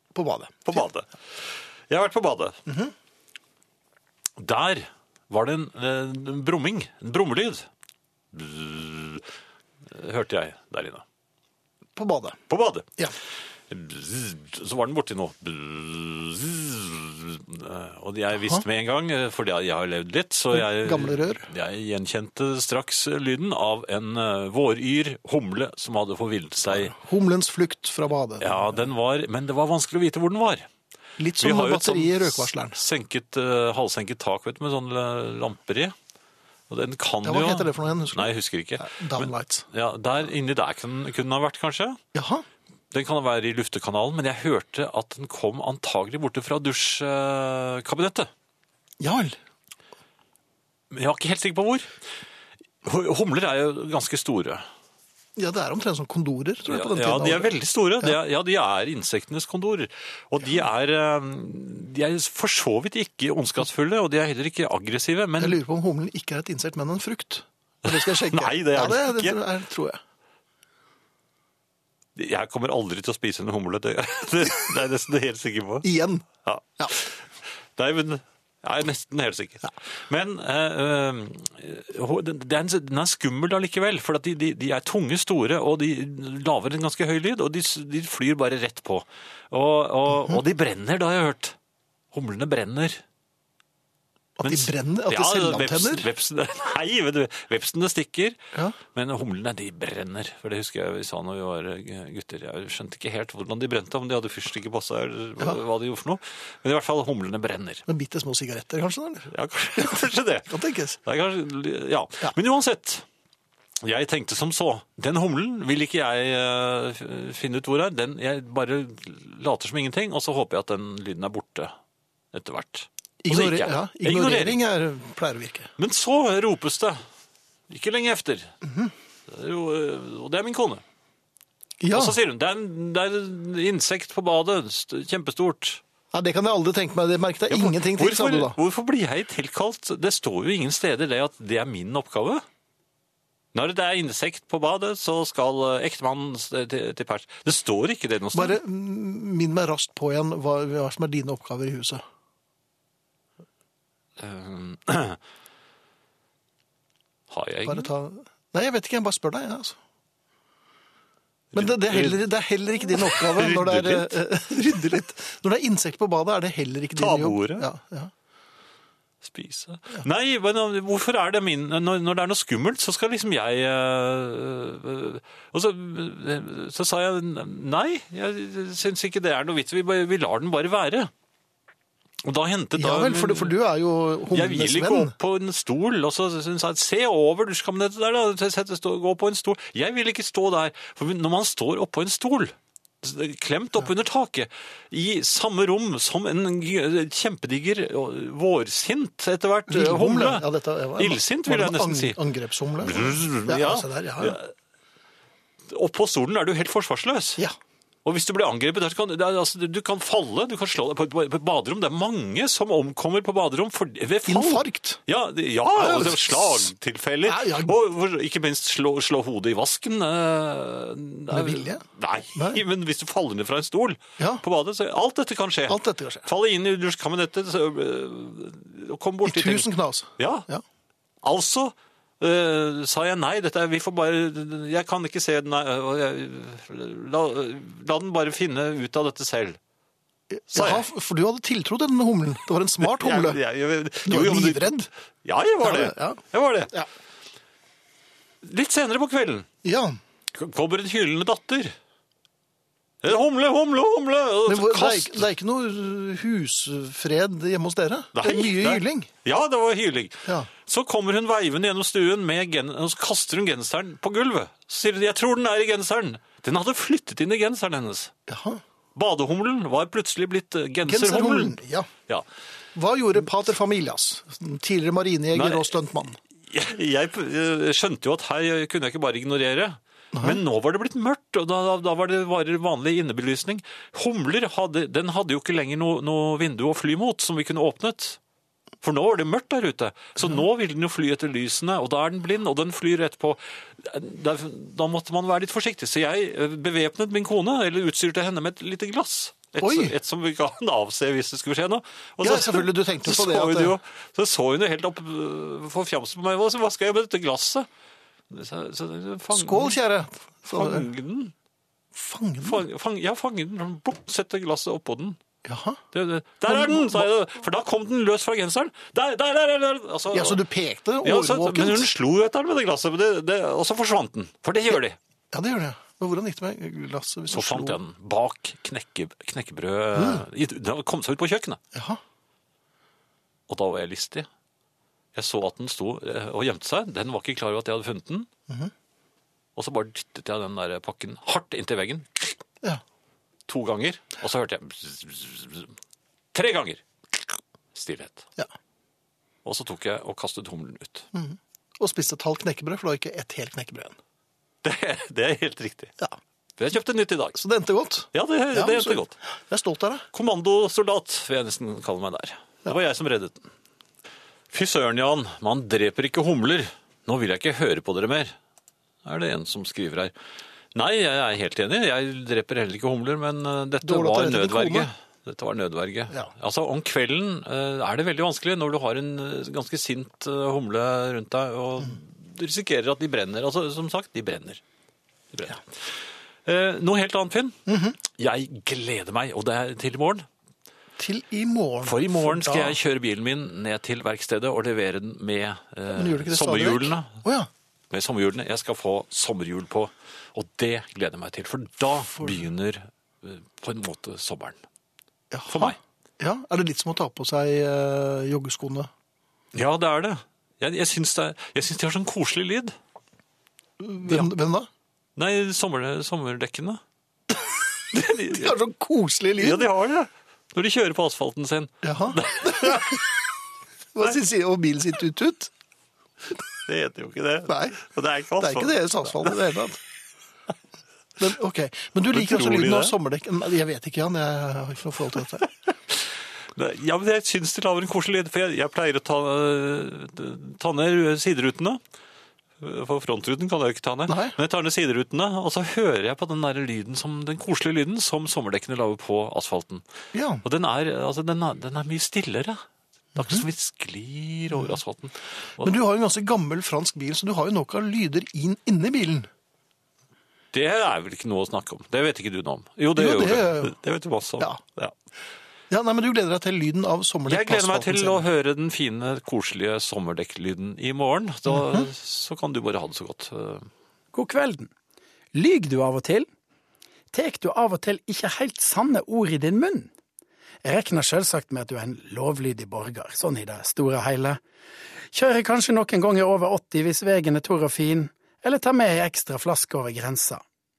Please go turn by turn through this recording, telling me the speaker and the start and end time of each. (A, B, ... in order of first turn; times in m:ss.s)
0:00.1-0:00.8 A
0:00.6-0:02.6 B
0:02.6-0:02.9 A
0:04.4-0:07.7 B
0:08.3-0:09.2 B
0:09.9-0:11.0 B
0:12.0-0:12.4 A
0:12.5-0:12.9 B
0:13.7-0:26.9 B
0:20.5-0:21.5 A
0:26.7-0:28.8 A
0:28.4-0:30.7 B
0:31.2-0:32.8 A
0:31.4-0:35.9 B
0:36.7-0:42.0 B
0:37.2-0:39.6 A
0:42.1-0:42.4 A
0:42.9-0:48.3 B
0:49.0-0:49.4 A
0:50.9-0:51.9 B
0:52.8-0:54.6 B
0:55.4-0:57.5 A
0:56.7-1:05.6 B
1:05.4-1:10.0 A
1:07.8-1:09.4 B
1:12.2-1:15.8 B
1:15.8-1:16.2 A
1:16.4-1:17.2 B
1:17.8-1:31.6 B
1:32.1-1:33.0 B
1:34.4-1:36.0 A
1:34.4-1:47.8 B
1:47.9-1:51.0 A
1:49.3-1:53.0 B
1:53.8-2:01.7 B
2:02.3-2:04.6 B
2:03.2-2:05.7 A
2:05.8-2:07.0 B
2:07.7-2:08.5 B
2:08.6-2:08.9 A
2:09.3-2:10.8 B
2:11.8-2:12.2 A
2:11.9-2:15.8 B
2:16.1-2:18.6 A
2:17.5-2:22.4 B
2:23.5-2:28.6 B
2:28.3-2:32.0 A
2:34.2-2:35.2 B
2:37.3-2:37.9 B
2:37.6-2:39.8 A
2:41.5-2:42.2 B
2:41.5-2:48.1 A
2:42.9-2:44.2 B
2:47.0-2:47.7 B
2:49.2-3:01.1 B
3:02.2-3:03.6 B
3:02.8-3:05.1 A
3:04.3-3:22.2 B
3:19.7-3:24.4 A
3:22.8-3:24.5 B
3:25.7-3:27.4 B
3:28.0-3:50.5 B
3:34.2-3:35.0 A
3:35.7-3:36.7 A
3:37.2-3:37.7 A
3:41.3-3:41.8 A
3:42.3-3:42.6 A
3:44.2-3:44.4 A
3:45.7-3:46.3 A
3:49.2-3:50.6 A
3:51.2-3:59.6 B
4:00.3-4:03.4 A
4:00.5-4:00.8 B
4:02.8-4:06.7 B
4:04.0-4:04.9 A
4:05.6-4:06.9 A
4:08.4-4:09.5 B
4:09.6-4:10.0 A
4:10.3-4:11.7 B
4:13.0-4:15.2 B
4:14.5-4:19.1 A
4:18.1-4:28.1 B
4:28.3-4:28.6 A
4:28.9-4:32.2 B
4:30.8-4:31.9 A
4:32.7-4:36.2 A
4:35.3-4:35.7 B
4:36.5-4:48.2 B
4:40.1-4:40.4 A
4:48.8-5:07.7 B
4:59.6-4:59.9 A
5:02.2-5:03.7 A
5:08.3-5:09.8 B
5:09.3-5:10.9 A
5:10.5-5:11.3 B
5:11.9-5:12.6 A
5:12.4-5:15.2 B
5:15.4-5:15.8 A
5:15.9-5:20.4 B
5:16.5-5:17.1 A
5:20.1-5:21.9 A
5:21.0-5:25.0 B
5:25.3-5:27.8 A
5:27.3-5:31.6 B
5:29.9-5:30.2 A
5:31.7-5:32.0 A
5:33.5-5:34.3 B
5:35.1-5:38.3 B
5:39.6-5:42.4 B
5:43.5-5:45.7 B
5:46.3-5:46.8 B
5:47.7-5:48.2 B
5:49.4-5:51.1 B
5:51.1-5:54.0 A
5:54.6-5:55.9 B
5:56.6-5:57.4 B
5:57.3-6:00.1 A
5:58.1-5:59.1 B
6:00.1-6:03.5 B
6:04.5-6:08.3 B
6:09.0-6:10.1 B
6:10.7-6:24.6 B
6:13.8-6:14.9 A
6:25.3-6:30.3 B
6:27.7-6:28.0 A
6:31.0-6:32.8 A
6:31.8-6:37.2 B
6:35.9-6:37.5 A
6:37.9-6:44.6 B
6:45.3-6:48.9 A
6:45.5-6:45.8 B
6:49.5-6:52.7 B
6:53.8-6:54.7 A
6:55.2-6:56.8 B
6:57.9-6:58.6 B
6:58.2-6:59.7 A
6:59.4-7:03.0 B
7:01.8-7:03.0 A
7:03.9-7:05.5 A
7:06.6-7:09.4 B
7:07.5-7:07.8 A
7:08.4-7:09.8 A
7:11.2-7:15.5 A
7:12.1-7:12.9 B
7:15.4-7:16.0 B
7:16.5-7:21.8 B
7:22.6-7:29.8 B
7:24.1-7:24.4 A
7:30.1-7:30.4 A
7:30.4-7:32.6 B
7:33.2-7:33.4 A
7:33.2-7:35.7 B
7:35.6-7:39.3 A
7:40.5-7:44.9 B
7:43.0-7:43.7 A
7:45.7-7:48.3 A
7:47.2-7:53.7 B
7:51.5-7:51.8 A
7:54.1-7:54.7 C
7:55.3-7:56.3 C
7:57.1-7:59.9 C
8:00.6-8:04.4 C
8:05.1-8:10.4 C